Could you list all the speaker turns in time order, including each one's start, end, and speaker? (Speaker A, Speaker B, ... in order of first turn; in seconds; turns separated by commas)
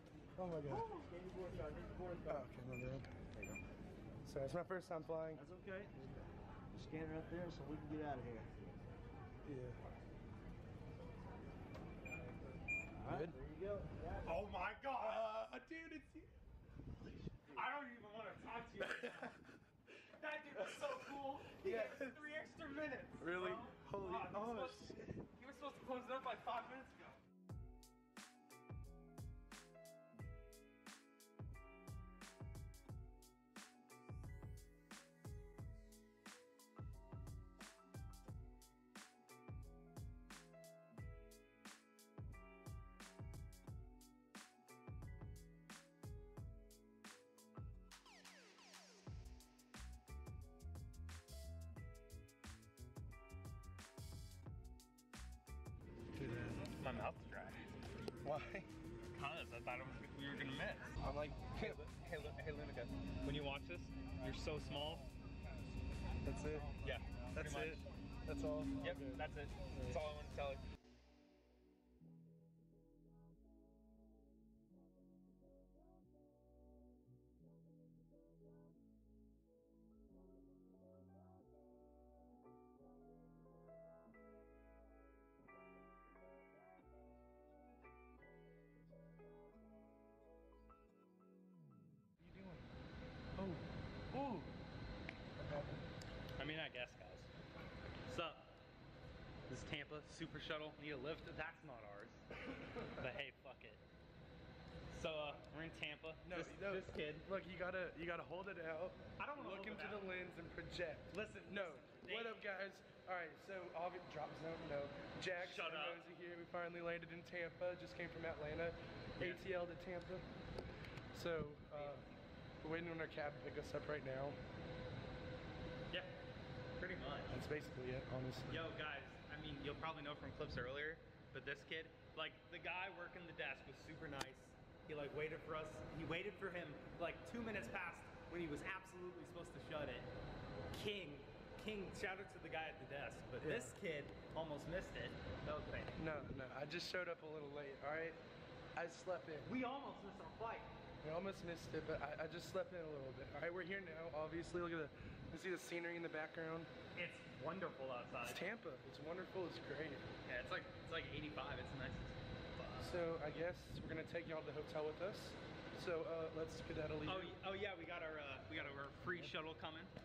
Speaker A: 0.4-0.9, Speaker B: 0.9-2.3, Speaker A: 2.3-3.1, Speaker A: 4.2-5.5, Speaker B: 5.4-6.2, Speaker B: 6.7-8.5, Speaker A: 9.4-9.8, Speaker B: 13.0-14.1, Speaker A: 13.1-13.4, Speaker C: 14.2-15.2, Speaker A: 15.0-16.3, Speaker C: 17.5-19.4, Speaker A: 18.8-19.4, Speaker C: 20.0-27.2, Speaker A: 20.6-21.0, Speaker A: 21.6-22.2, Speaker A: 23.2-25.2, Speaker A: 56.2-56.6, Speaker C: 56.5-57.8, Speaker A: 58.2-58.7, Speaker C: 59.1-61.0, Speaker A: 61.0-61.8, Speaker C: 61.6-65.1, Speaker A: 66.2-66.8, Speaker C: 66.8-68.0, Speaker A: 67.3-70.0, Speaker C: 68.8-70.6, Speaker A: 92.2-92.7, Speaker A: 93.4-94.5, Speaker A: 95.4-95.9, Speaker C: 96.4-97.3, Speaker C: 98.1-98.5, Speaker C: 99.5-102.3, Speaker A: 102.5-103.0, Speaker C: 102.9-103.8, Speaker C: 104.9-107.3, Speaker A: 106.2-120.3, Speaker C: 109.2-110.1, Speaker C: 111.1-112.4, Speaker C: 115.4-116.0, Speaker C: 119.2-119.5, Speaker A: 121.1-122.1, Speaker C: 121.7-122.2, Speaker A: 122.6-124.4, Speaker C: 125.9-126.2, Speaker C: 126.8-127.4, Speaker A: 127.3-128.7, Speaker C: 128.5-140.1, Speaker C: 140.7-146.0, Speaker A: 143.4-143.8, Speaker A: 146.0-148.2, Speaker A: 148.8-149.5, Speaker C: 149.4-150.7, Speaker A: 151.0-156.7, Speaker C: 156.9-158.5, Speaker A: 158.2-160.1, Speaker C: 160.3-163.0, Speaker A: 162.8-167.4, Speaker C: 167.1-169.9, Speaker A: 168.5-169.3